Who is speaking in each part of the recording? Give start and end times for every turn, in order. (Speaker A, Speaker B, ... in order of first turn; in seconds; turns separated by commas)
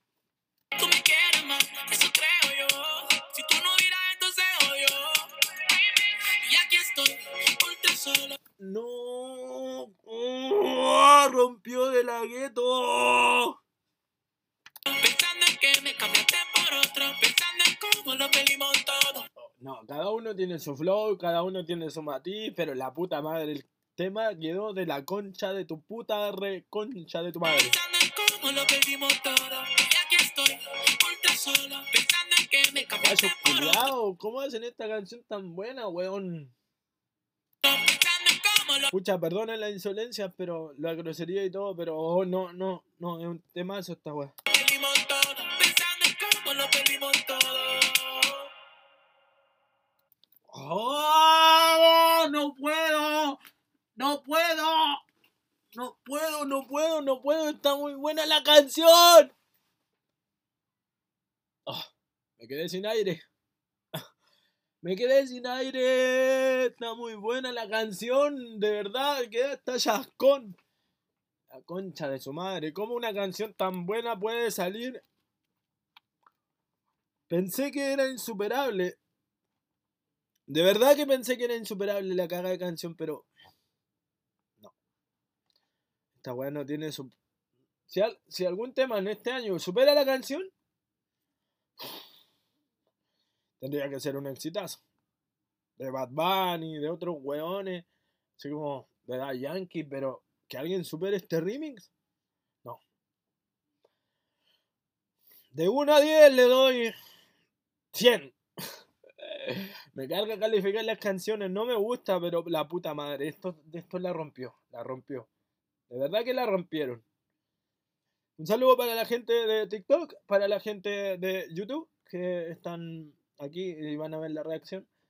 Speaker A: 0.8-8.4, Speaker B: 8.6-13.6, Speaker A: 14.9-19.2, Speaker B: 19.6-27.7, Speaker A: 27.4-33.9, Speaker B: 33.0-36.5, Speaker A: 37.6-38.9, Speaker B: 38.9-44.3, Speaker A: 44.5-48.5, Speaker B: 50.5-53.4, Speaker B: 54.0-55.0, Speaker B: 55.7-59.3, Speaker B: 61.7-63.2, Speaker B: 64.8-70.5, Speaker B: 71.5-75.0, Speaker B: 77.3-79.0, Speaker B: 80.5-83.3, Speaker B: 86.2-87.1, Speaker B: 87.9-90.5, Speaker B: 93.6-94.8, Speaker B: 95.8-97.8, Speaker B: 98.4-101.9, Speaker B: 105.5-106.9, Speaker B: 107.9-108.4, Speaker B: 109.2-115.3, Speaker B: 115.9-117.0, Speaker B: 118.4-124.9